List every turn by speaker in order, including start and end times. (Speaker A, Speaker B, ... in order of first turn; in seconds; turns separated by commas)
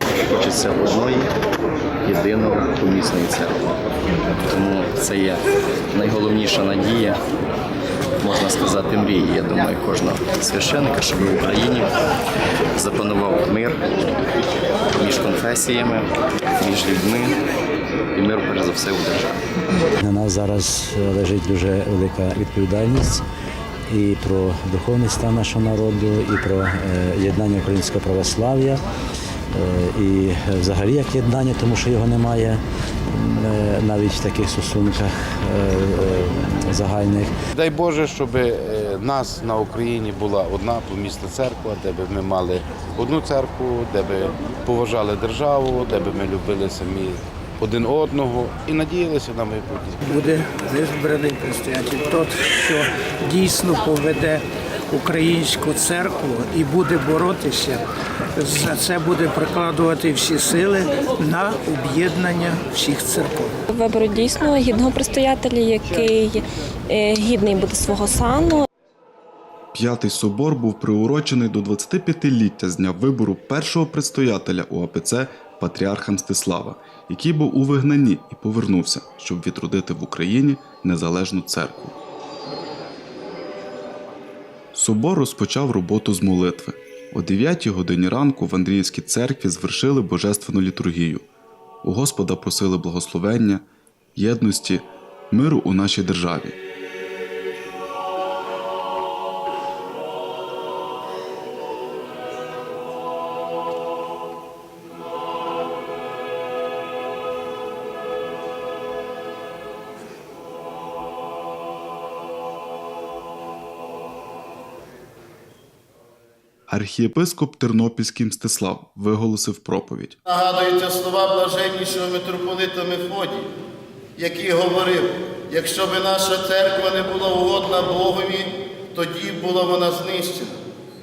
Speaker A: 0.3-1.2, Speaker A: 2.0-3.7, Speaker A: 4.5-5.4, Speaker A: 5.9-7.2, Speaker A: 8.2-11.9, Speaker A: 12.8-14.2, Speaker A: 14.9-16.1, Speaker A: 16.6-17.4, Speaker A: 18.1-19.4, Speaker B: 20.0-23.2, Speaker B: 23.9-28.8, Speaker B: 29.5-37.3, Speaker C: 37.5-50.0, Speaker D: 50.0-57.8, Speaker D: 58.4-63.6, Speaker E: 63.7-68.6, Speaker F: 69.7-82.0, Speaker F: 84.7-91.3, Speaker F: 91.8-93.6, Speaker F: 94.2-96.6, Speaker F: 116.7-120.2, Speaker G: 120.2-123.5, Speaker G: 124.2-130.6